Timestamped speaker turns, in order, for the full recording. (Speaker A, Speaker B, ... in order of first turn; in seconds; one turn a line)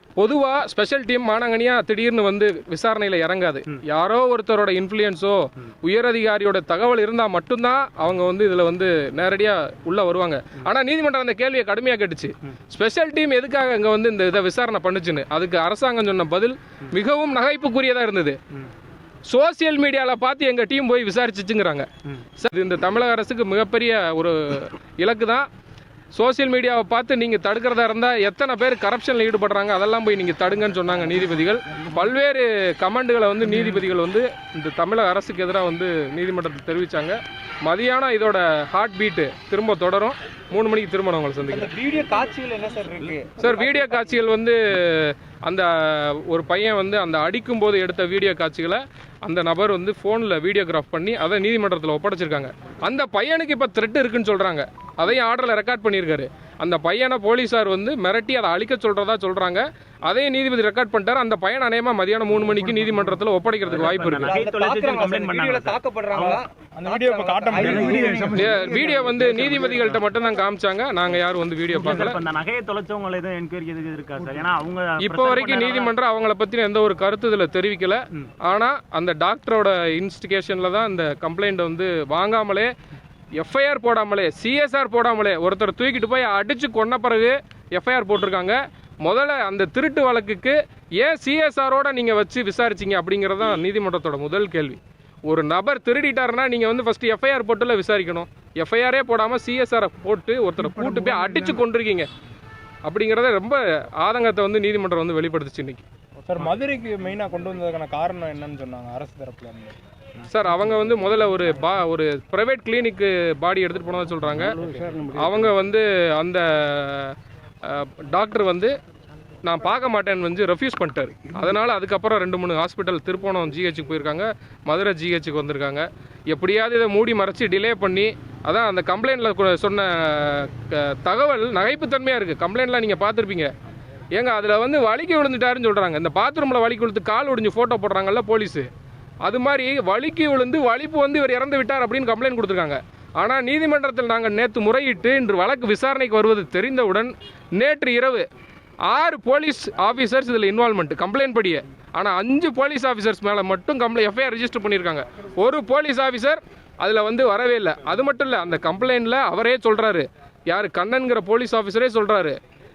Speaker A: 0.2-18.4
Speaker A: 19.2-25.5
Speaker A: 26.1-41.7
Speaker B: 41.5-43.9
Speaker A: 43.4-64.3
Speaker C: 63.7-66.4
Speaker B: 64.2-70.0
Speaker D: 66.8-69.0
Speaker C: 67.7-68.0
Speaker A: 68.3-72.2
Speaker C: 71.7-76.0
Speaker A: 75.0-82.7
Speaker A: 83.4-102.1
Speaker D: 100.6-101.6
Speaker A: 102.8-105.8
Speaker D: 106.3-109.8
Speaker A: 110.3-118.7
Speaker D: 114.6-115.2
Speaker A: 119.4-133.5
Speaker A: 134.1-138.7
Speaker A: 139.2-148.2
Speaker A: 148.9-162.4